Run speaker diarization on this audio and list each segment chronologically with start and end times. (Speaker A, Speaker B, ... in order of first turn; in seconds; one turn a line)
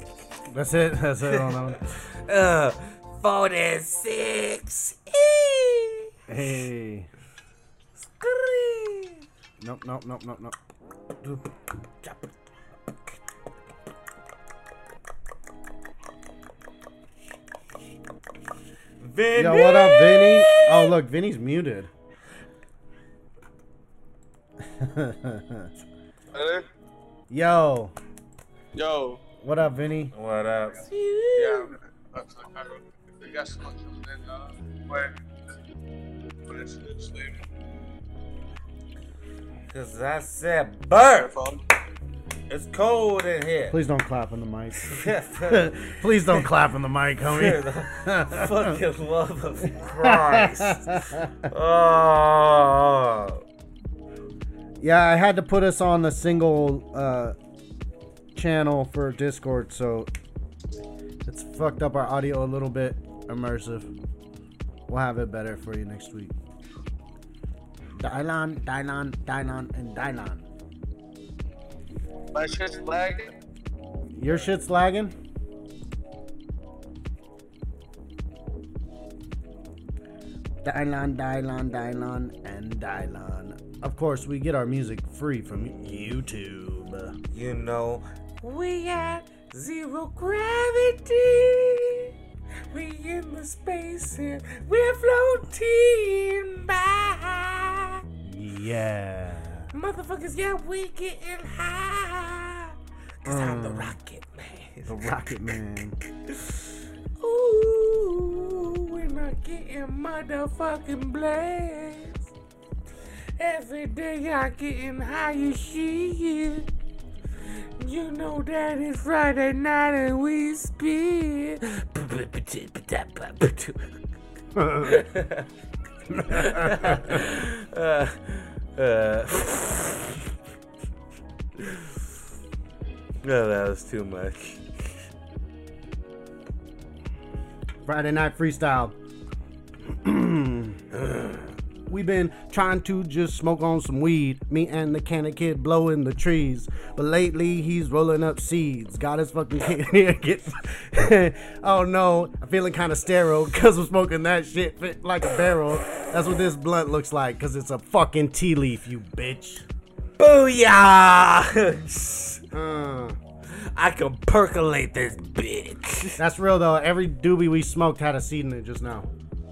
Speaker A: 0.5-1.8
Speaker B: 1.3-6.1
Speaker A: 6.3-7.1
Speaker B: 8.0-9.2
Speaker A: 9.6-10.6
Speaker B: 12.0-12.3
Speaker B: 19.0-20.9
Speaker A: 19.3-21.9
Speaker A: 24.6-25.7
Speaker C: 26.3-26.6
Speaker A: 27.3-27.9
Speaker C: 28.8-29.2
Speaker A: 29.4-30.1
Speaker B: 30.1-31.8
Speaker C: 31.4-35.1
Speaker C: 36.5-37.3
Speaker B: 39.7-41.4
Speaker C: 41.2-41.6
Speaker B: 42.5-43.8
Speaker A: 43.7-48.8
Speaker B: 44.8-46.4
Speaker B: 47.2-53.4
Speaker A: 49.8-51.4
Speaker A: 54.8-57.4
Speaker A: 58.3-60.1
Speaker A: 61.2-63.9
Speaker A: 64.9-66.3
Speaker A: 68.0-70.5
Speaker C: 72.4-73.2
Speaker A: 74.1-75.1
Speaker A: 80.6-87.2
Speaker B: 87.3-92.1
Speaker B: 92.7-98.0
Speaker A: 98.2-99.7
Speaker B: 99.7-105.2
Speaker A: 103.2-104.0
Speaker A: 104.9-106.0
Speaker B: 106.3-112.3
Speaker B: 113.4-116.7
Speaker B: 117.8-124.0
Speaker A: 124.5-125.0
Speaker B: 124.8-125.5
Speaker A: 126.1-127.2
Speaker B: 126.2-130.2
Speaker B: 131.6-131.9
Speaker B: 133.2-134.9
Speaker A: 137.8-138.9
Speaker A: 139.8-140.8
Speaker A: 141.9-159.7
Speaker B: 160.2-162.4
Speaker A: 162.5-163.2
Speaker B: 163.5-166.2
Speaker A: 166.2-169.1